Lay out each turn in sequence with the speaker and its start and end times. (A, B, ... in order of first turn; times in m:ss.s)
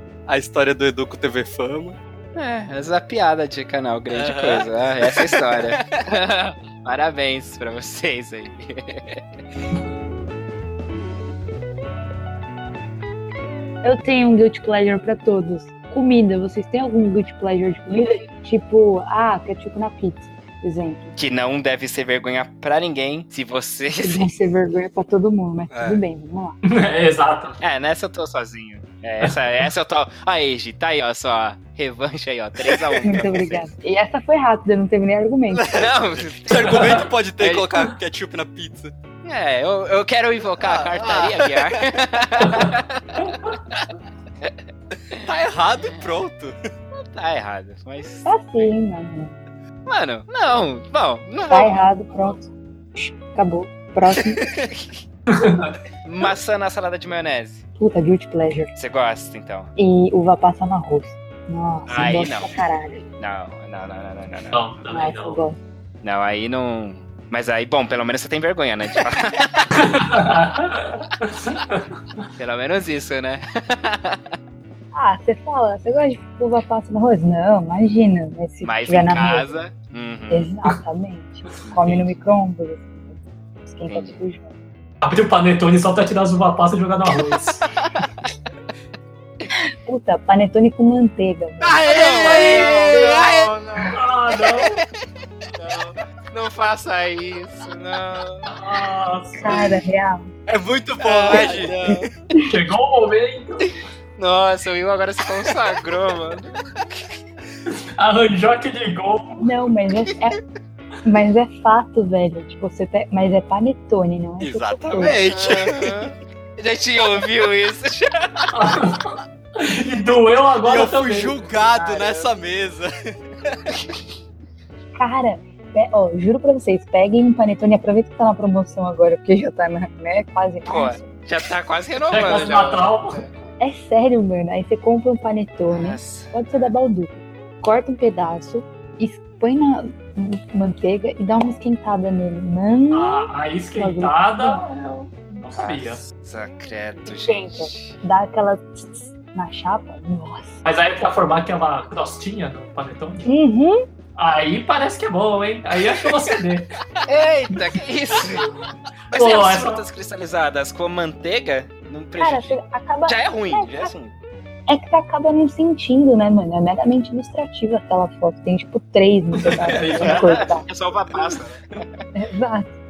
0:00.3-0:02.0 A
0:02.4-0:09.2 B
0:04.1-0:05.8 A
0:13.8-0:21.2 C
0:21.2-0:24.4 B
0:24.0-0:26.6 C
0:25.7-0:26.0 A
0:26.7-0:27.6 D
0:27.6-0:33.7 B
0:32.7-0:33.2 A
0:33.0-0:35.7 C
0:35.5-0:38.9 A
0:35.7-0:37.8 B
0:36.7-0:37.0 D
0:39.2-0:43.9 B
0:40.6-0:41.9 A
0:45.1-0:46.6 A
0:45.8-0:46.1 B
0:46.9-0:48.7 B
0:48.2-0:49.4 C
0:49.9-0:51.9 B
0:51.5-0:54.4 C
0:54.4-0:55.0 B
0:55.3-0:55.7 D
0:56.0-0:57.6 B
0:57.8-0:58.7 C
0:58.8-0:59.7 B
0:59.8-1:03.0 C
1:01.9-1:04.7 B
1:04.5-1:05.4 D
1:04.9-1:05.6 C
1:06.0-1:09.8 B
1:09.8-1:11.9 D
1:12.4-1:14.4 B
1:14.9-1:19.5 C
1:18.6-1:20.5 B
1:20.3-1:24.5 C
1:21.6-1:22.1 B
1:23.9-1:24.2 B
1:25.0-1:27.7 D
1:27.8-1:28.3 B
1:29.5-1:31.8 C
1:31.7-1:34.6 B
1:31.8-1:33.5 A
1:32.1-1:32.8 D
1:33.9-1:34.8 D
1:35.5-1:38.6 B
1:38.5-1:39.7 D
1:39.4-1:40.3 C
1:40.5-1:41.8 A
1:41.0-1:42.1 B
1:41.3-1:42.4 C
1:42.4-1:43.7 D
1:43.6-1:47.1 B
1:47.7-1:49.5 D
1:49.4-1:50.4 C
1:51.0-1:55.2 C
1:54.4-1:56.1 A
1:55.0-1:58.5 B
1:58.5-2:01.3 D
2:00.6-2:03.7 A
2:01.5-2:02.3 B
2:05.0-2:11.1 C
2:10.6-2:13.4 B
2:12.1-2:13.2 D
2:13.6-2:24.6 C
2:15.7-2:16.7 B
2:22.9-2:26.0 D
2:25.6-2:28.0 B
2:27.1-2:30.6 C
2:30.6-2:33.2 D
2:33.2-2:33.9 C
2:34.2-2:36.7 D
2:37.1-2:38.5 B
2:39.1-2:44.1 B
2:39.1-2:39.8 D
2:42.2-2:43.9 C
2:44.7-2:50.7 C
2:49.4-2:50.5 D
2:50.0-2:52.0 B
2:52.1-2:52.8 C